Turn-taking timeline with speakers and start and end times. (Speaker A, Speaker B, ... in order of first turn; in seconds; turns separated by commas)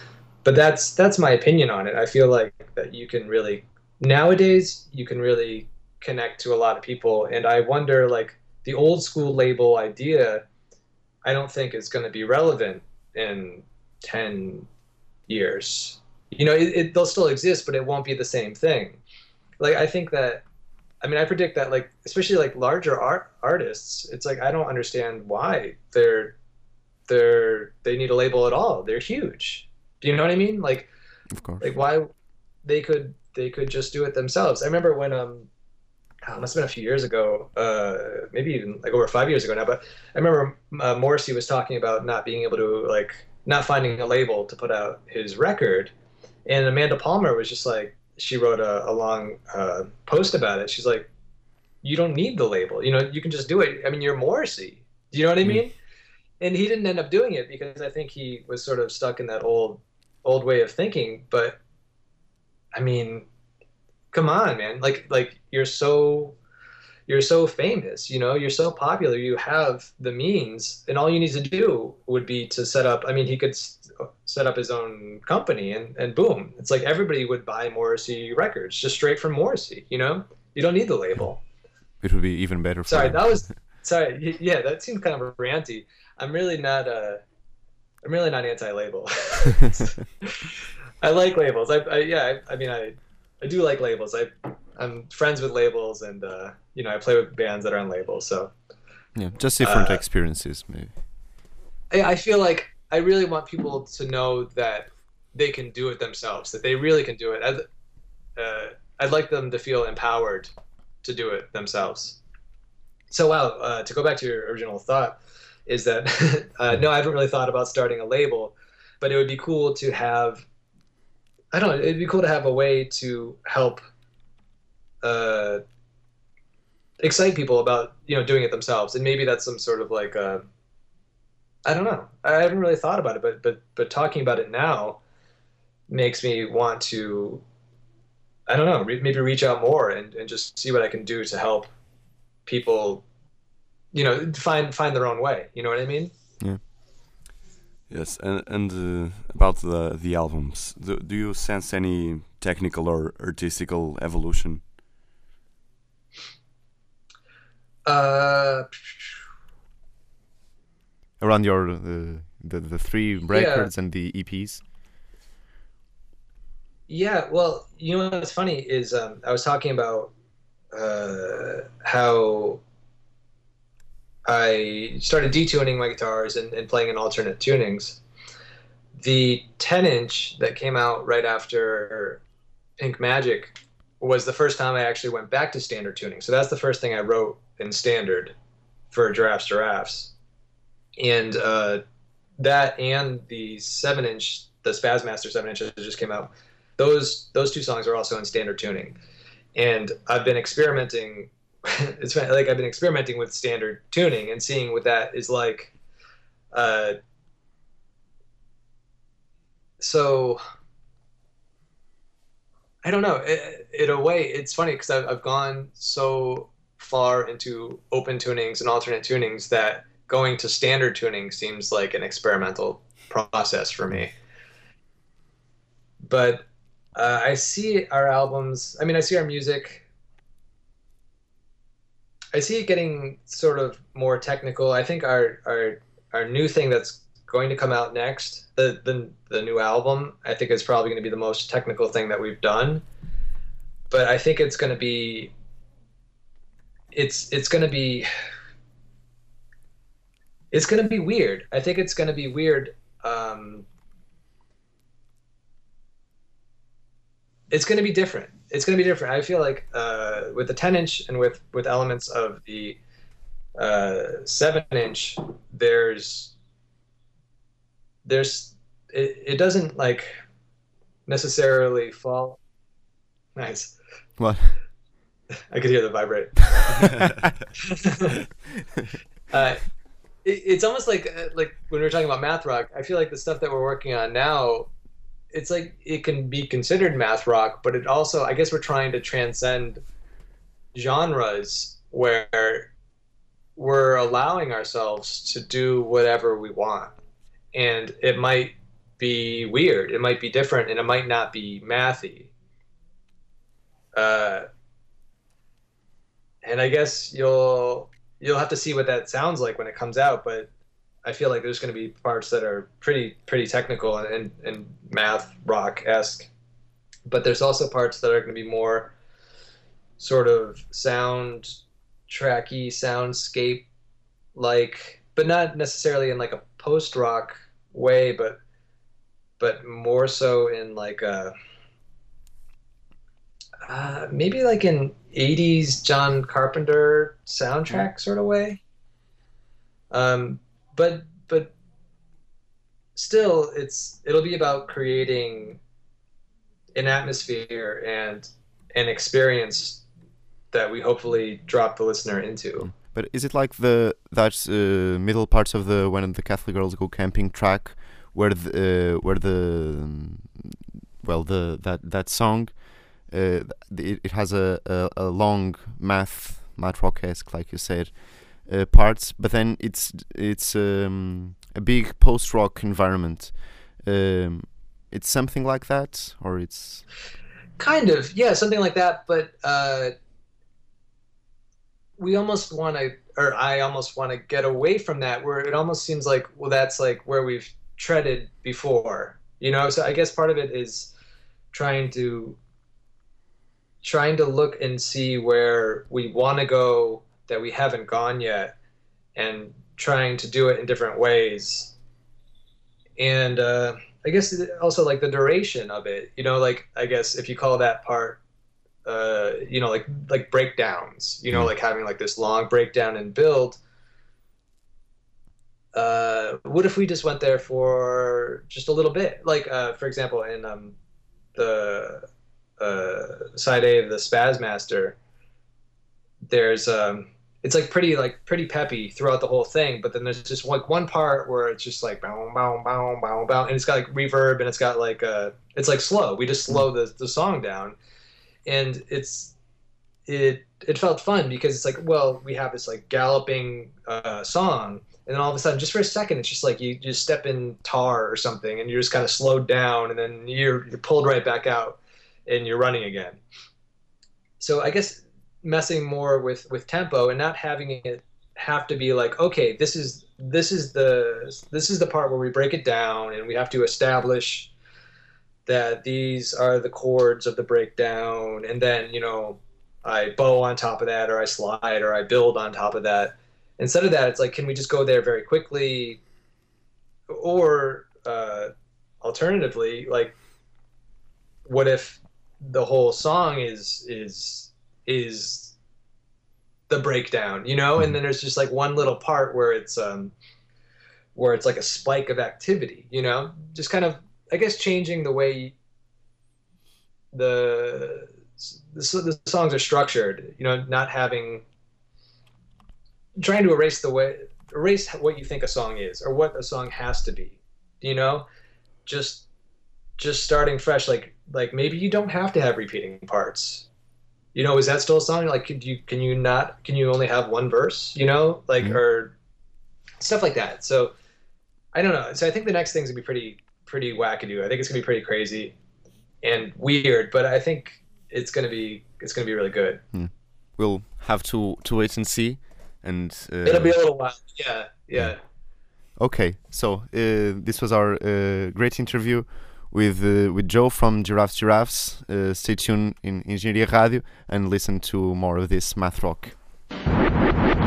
Speaker A: 0.4-10.4, Speaker A: 11.2-14.7, Speaker A: 15.3-19.0, Speaker A: 19.6-20.4, Speaker A: 21.0-26.4, Speaker A: 27.1-30.9, Speaker B: 31.3-31.6, Speaker A: 31.6-32.1, Speaker A: 32.6-35.5, Speaker A: 36.2-45.9, Speaker A: 46.5-51.1, Speaker A: 51.8-55.7, Speaker A: 56.4-61.6, Speaker A: 62.7-63.3, Speaker A: 64.1-66.4, Speaker A: 67.1-81.4, Speaker B: 82.0-83.5, Speaker A: 82.9-87.2, Speaker A: 88.0-98.5, Speaker B: 99.2-100.9, Speaker A: 99.6-100.0, Speaker A: 101.9-107.7, Speaker A: 108.4-110.5, Speaker A: 111.0-112.2, Speaker A: 113.1-120.5, Speaker A: 121.5-123.8, Speaker A: 125.0-125.6, Speaker A: 127.0-130.4, Speaker A: 131.7-135.0, Speaker A: 135.9-137.4, Speaker A: 138.5-141.7, Speaker A: 142.5-143.0, Speaker A: 143.9-146.1, Speaker C: 147.9-154.6, Speaker A: 157.9-158.7, Speaker B: 161.2-164.6, Speaker A: 163.3-163.7, Speaker A: 166.9-170.1, Speaker A: 170.7-172.6, Speaker A: 174.3-178.0, Speaker A: 179.0-182.2, Speaker A: 182.8-188.3, Speaker A: 188.9-190.1, Speaker A: 191.0-191.8, Speaker A: 192.4-198.9, Speaker A: 199.6-205.7, Speaker A: 206.5-207.0, Speaker A: 209.8-210.4, Speaker A: 212.8-224.1, Speaker A: 226.0-226.4, Speaker A: 227.0-229.8, Speaker A: 232.3-242.8, Speaker A: 243.9-245.3, Speaker A: 246.9-248.1, Speaker A: 250.5-253.7, Speaker A: 257.5-262.8, Speaker A: 263.6-266.3, Speaker A: 268.1-270.1, Speaker A: 271.1-272.4, Speaker A: 273.4-273.7, Speaker B: 274.2-274.6, Speaker A: 275.5-276.9, Speaker B: 276.8-277.3, Speaker A: 277.6-278.2, Speaker A: 279.3-279.6, Speaker A: 280.2-284.7, Speaker A: 285.3-289.8, Speaker A: 290.7-292.7, Speaker A: 293.6-296.9, Speaker A: 297.5-302.3, Speaker A: 303.9-304.5, Speaker A: 306.4-310.5, Speaker A: 311.1-316.3, Speaker A: 317.1-318.9, Speaker A: 320.0-321.6, Speaker A: 322.1-323.7, Speaker A: 324.4-328.4, Speaker A: 329.4-331.3, Speaker A: 333.7-338.6, Speaker A: 339.9-341.5, Speaker A: 342.9-345.6, Speaker A: 346.8-349.8, Speaker A: 350.5-352.7, Speaker B: 352.6-376.8, Speaker A: 377.6-379.9, Speaker A: 382.0-390.9, Speaker A: 391.5-392.4, Speaker A: 393.8-398.6, Speaker A: 399.1-401.7, Speaker A: 403.0-408.2, Speaker A: 408.9-413.6, Speaker A: 415.7-420.8, Speaker A: 421.4-422.1, Speaker A: 422.6-425.0, Speaker A: 426.3-437.8, Speaker A: 438.5-439.3, Speaker A: 440.1-453.2, Speaker A: 454.4-464.5, Speaker A: 465.5-476.0, Speaker A: 477.1-478.5, Speaker A: 479.0-480.1, Speaker A: 481.5-485.5, Speaker A: 486.7-490.1, Speaker A: 491.1-495.6, Speaker A: 497.1-501.4, Speaker A: 503.2-508.3, Speaker A: 508.9-509.2, Speaker A: 510.0-513.7, Speaker A: 514.3-519.1, Speaker A: 520.0-520.9, Speaker A: 521.7-525.5, Speaker A: 526.2-529.8, Speaker B: 529.9-533.8, Speaker A: 533.5-535.2, Speaker B: 536.0-546.4